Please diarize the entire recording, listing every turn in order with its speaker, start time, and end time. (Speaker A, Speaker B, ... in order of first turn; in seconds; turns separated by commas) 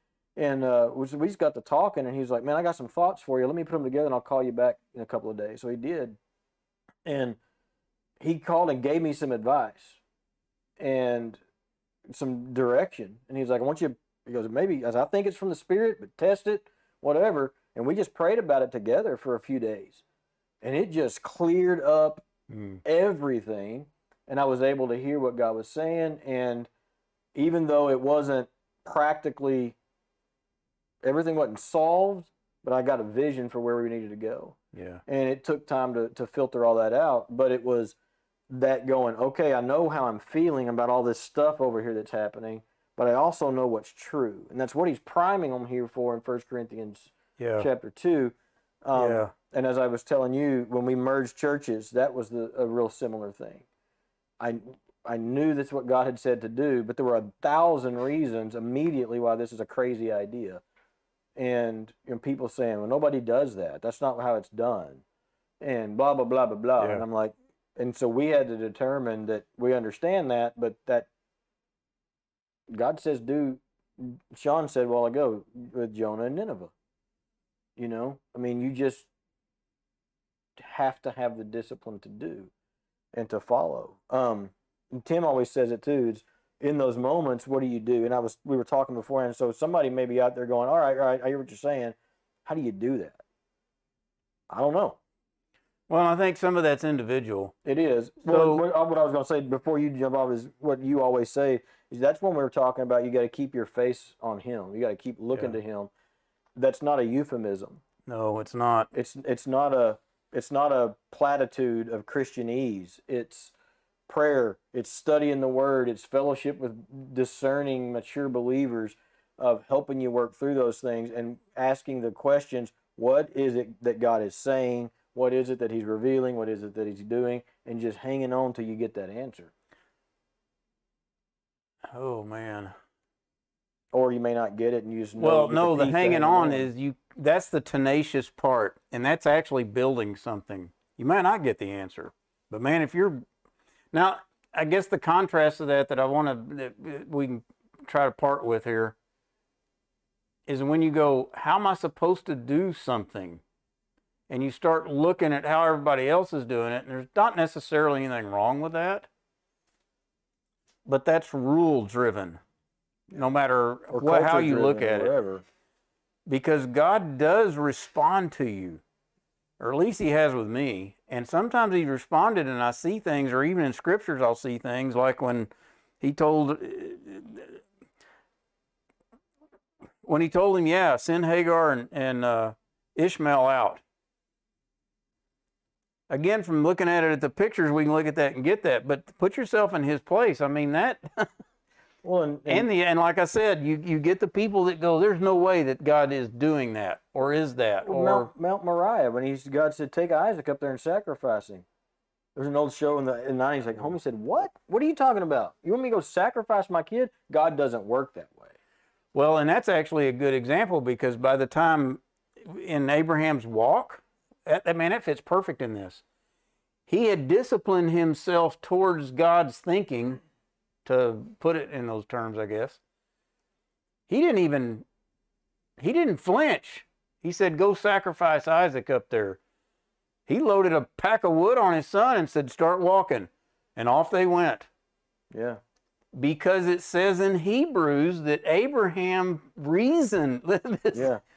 Speaker A: 0.4-6.2, Speaker A: 7.0-7.4, Speaker A: 8.2-10.0, Speaker A: 10.8-11.4, Speaker A: 12.1-20.0, Speaker A: 20.6-22.2, Speaker B: 22.5-22.8, Speaker A: 22.8-26.7, Speaker A: 27.3-29.8, Speaker A: 31.0-37.9, Speaker B: 34.7-35.0, Speaker A: 38.5-53.6, Speaker B: 47.4-47.7, Speaker B: 48.9-49.3, Speaker A: 54.4-60.6, Speaker A: 61.4-65.0, Speaker A: 65.6-71.1, Speaker B: 66.8-67.0, Speaker A: 72.7-76.7, Speaker A: 77.8-79.1, Speaker A: 80.6-82.5, Speaker A: 83.1-93.2, Speaker A: 94.5-95.0, Speaker B: 95.9-97.5, Speaker A: 97.6-105.9, Speaker B: 98.2-98.6, Speaker A: 106.6-107.8, Speaker B: 108.0-108.9, Speaker A: 108.9-113.5, Speaker A: 114.1-129.5, Speaker B: 131.9-132.7, Speaker A: 133.9-136.7, Speaker B: 135.2-143.2, Speaker B: 143.9-148.9, Speaker B: 150.5-153.4, Speaker B: 154.3-159.1, Speaker B: 160.9-162.4, Speaker B: 163.1-165.1, Speaker A: 163.9-165.4, Speaker B: 166.3-168.8, Speaker B: 169.6-177.6, Speaker B: 180.0-183.8, Speaker B: 186.1-191.3, Speaker A: 192.0-192.7, Speaker B: 192.5-198.3, Speaker A: 197.8-201.6, Speaker A: 202.4-208.5, Speaker B: 209.1-216.0, Speaker B: 216.9-220.2, Speaker B: 220.8-222.8, Speaker B: 224.1-224.8, Speaker B: 225.8-229.4, Speaker B: 230.3-234.7, Speaker A: 235.3-235.6, Speaker B: 236.1-241.1, Speaker A: 240.9-241.2